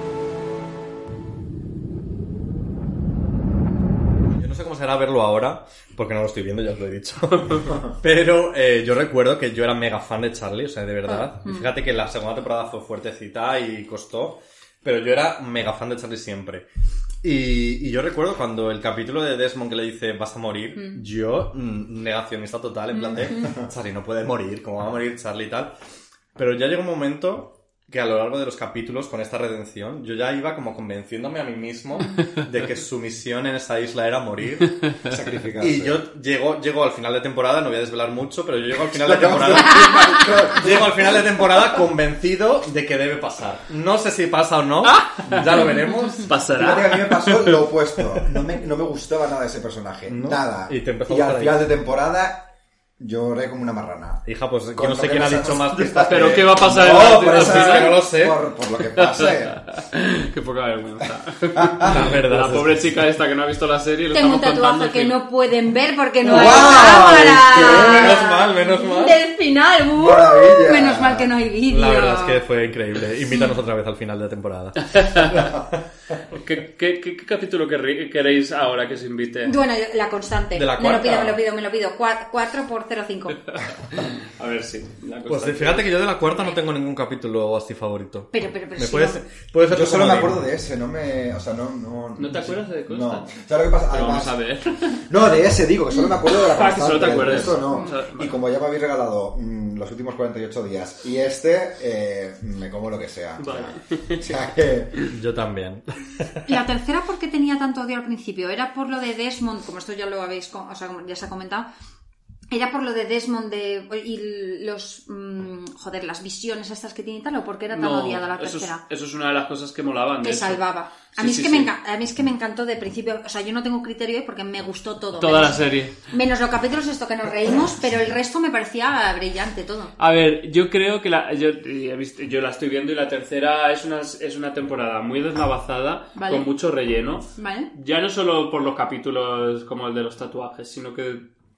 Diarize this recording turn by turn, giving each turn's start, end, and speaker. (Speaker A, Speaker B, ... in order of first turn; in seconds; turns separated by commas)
Speaker A: 4.3-16.7, Speaker B: 11.1-11.7, Speaker A: 17.2-25.7, Speaker B: 20.8-21.0, Speaker B: 22.9-23.5, Speaker C: 23.3-23.7, Speaker A: 26.4-34.9, Speaker C: 35.1-36.0, Speaker A: 35.6-46.3, Speaker C: 38.9-41.2, Speaker D: 44.9-45.4, Speaker D: 46.2-47.6, Speaker C: 46.6-52.5, Speaker A: 50.1-51.7, Speaker C: 53.0-59.6, Speaker A: 54.3-58.4, Speaker D: 56.0-58.0, Speaker D: 59.0-65.2, Speaker C: 61.5-62.0, Speaker A: 61.9-62.8, Speaker B: 64.1-72.4, Speaker C: 66.2-68.2, Speaker A: 66.3-69.2, Speaker C: 70.0-71.3, Speaker A: 71.7-75.8, Speaker B: 73.3-73.6, Speaker D: 74.9-75.3, Speaker D: 76.3-79.5, Speaker B: 79.5-83.5, Speaker A: 80.5-81.4, Speaker D: 83.9-85.9, Speaker A: 85.3-90.4, Speaker B: 88.3-89.2, Speaker C: 89.7-94.4, Speaker D: 92.2-93.3, Speaker D: 93.9-94.7, Speaker C: 95.1-105.0, Speaker D: 96.4-98.4, Speaker B: 97.7-97.9, Speaker D: 103.4-104.2, Speaker A: 105.1-106.4, Speaker B: 106.5-111.7, Speaker B: 112.5-118.8, Speaker D: 117.7-121.7, Speaker B: 120.2-129.9, Speaker D: 125.2-126.0, Speaker D: 130.0-141.3, Speaker B: 136.2-136.5, Speaker B: 137.4-137.7